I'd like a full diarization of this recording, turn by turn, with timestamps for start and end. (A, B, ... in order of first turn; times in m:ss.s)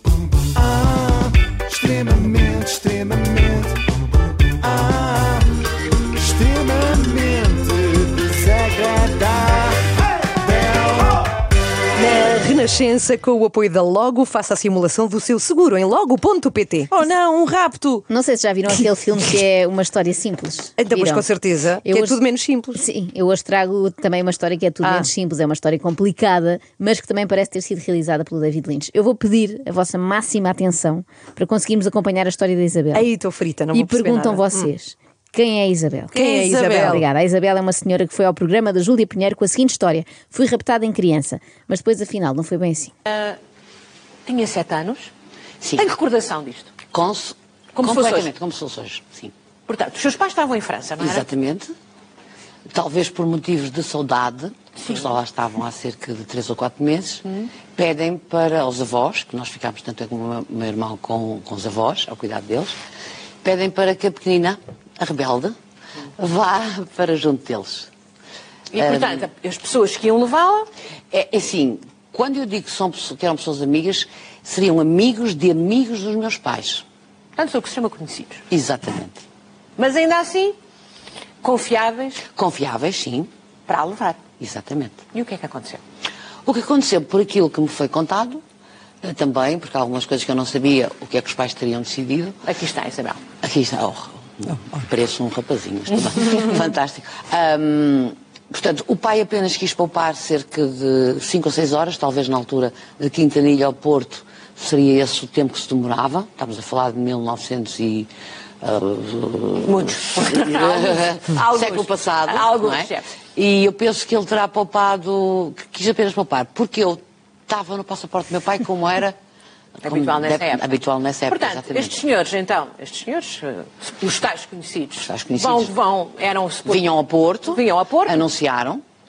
0:00.4-0:03.8 A
0:04.6-0:05.5 A
0:06.1-0:09.8 A
0:10.4-0:11.2 A
0:12.0-0:16.9 B
0:16.9-0:18.0 C
0:18.1-0:21.2 D
0:20.8-0:22.8 B
0:21.8-0:22.2 D
0:22.7-0:33.1 D
0:24.8-0:25.1 B
0:32.9-0:34.7 B
0:33.7-0:42.9 D
0:36.1-0:37.0 B
0:36.2-0:37.0 C
0:43.1-0:43.4 E
0:44.2-0:45.1 E
0:45.7-0:46.7 E
0:46.9-0:49.3 F
0:47.8-0:48.3 E
0:49.7-0:51.2 E
0:51.0-0:51.7 F
0:52.7-1:02.7 F
1:03.4-1:05.5 F
1:06.2-1:07.9 F
1:08.7-1:10.7 E
1:08.8-1:09.3 F
1:11.1-1:16.8 F
1:17.4-1:18.4 E
1:18.5-1:19.2 F
1:19.8-1:20.6 E
1:21.4-1:22.2 E
1:22.3-1:23.3 F
1:23.7-1:24.2 E
1:24.4-1:25.0 F
1:25.1-1:25.8 E
1:26.4-1:28.4 F
1:29.0-1:32.4 F
1:32.4-1:33.2 E
1:33.4-1:48.1 F
1:48.6-1:59.2 F
1:49.6-1:53.0 E
1:59.8-2:02.0 F
1:59.8-2:00.6 E
2:01.3-2:06.9 E
2:05.0-2:05.7 F
2:06.6-2:08.8 F
2:07.4-2:08.2 E